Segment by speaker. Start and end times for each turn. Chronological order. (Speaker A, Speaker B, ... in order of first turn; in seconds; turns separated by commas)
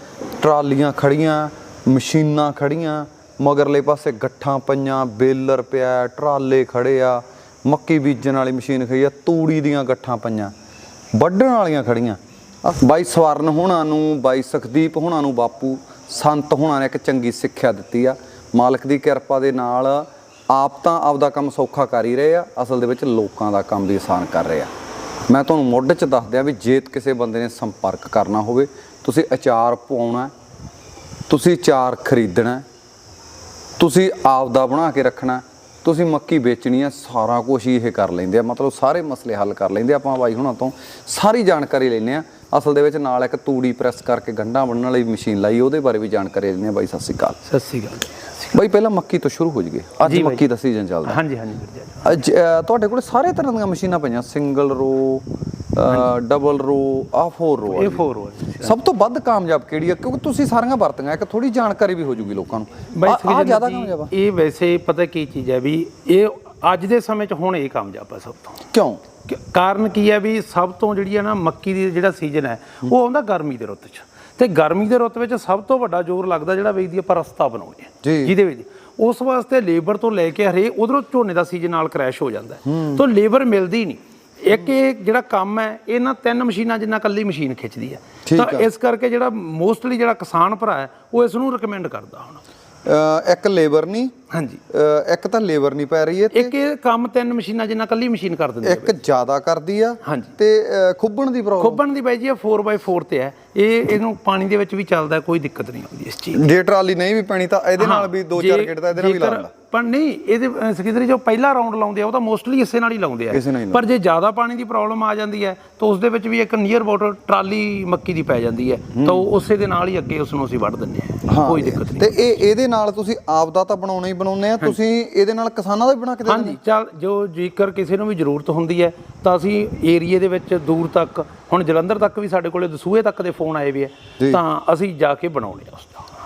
Speaker A: 0.4-10.5, Speaker A: 11.1-24.7, Speaker A: 25.3-30.3, Speaker A: 31.3-32.6, Speaker A: 33.8-47.4, Speaker B: 47.4-48.3, Speaker A: 48.5-51.2, Speaker B: 50.0-50.5, Speaker B: 51.0-52.0, Speaker A: 52.0-58.0, Speaker B: 57.6-58.8, Speaker A: 58.6-64.1, Speaker B: 62.9-68.6, Speaker A: 68.7-69.0, Speaker B: 69.3-92.4, Speaker A: 78.0-78.3, Speaker A: 82.7-83.0, Speaker A: 88.2-88.6, Speaker A: 92.8-94.1, Speaker B: 94.3-94.6, Speaker A: 94.7-96.5, Speaker B: 96.3-99.0, Speaker A: 98.6-101.8, Speaker B: 100.0-100.3, Speaker B: 101.6-106.4, Speaker A: 106.3-109.5, Speaker B: 107.8-122.2, Speaker A: 113.3-113.8, Speaker A: 118.9-119.2, Speaker A: 121.2-126.6, Speaker B: 126.2-136.1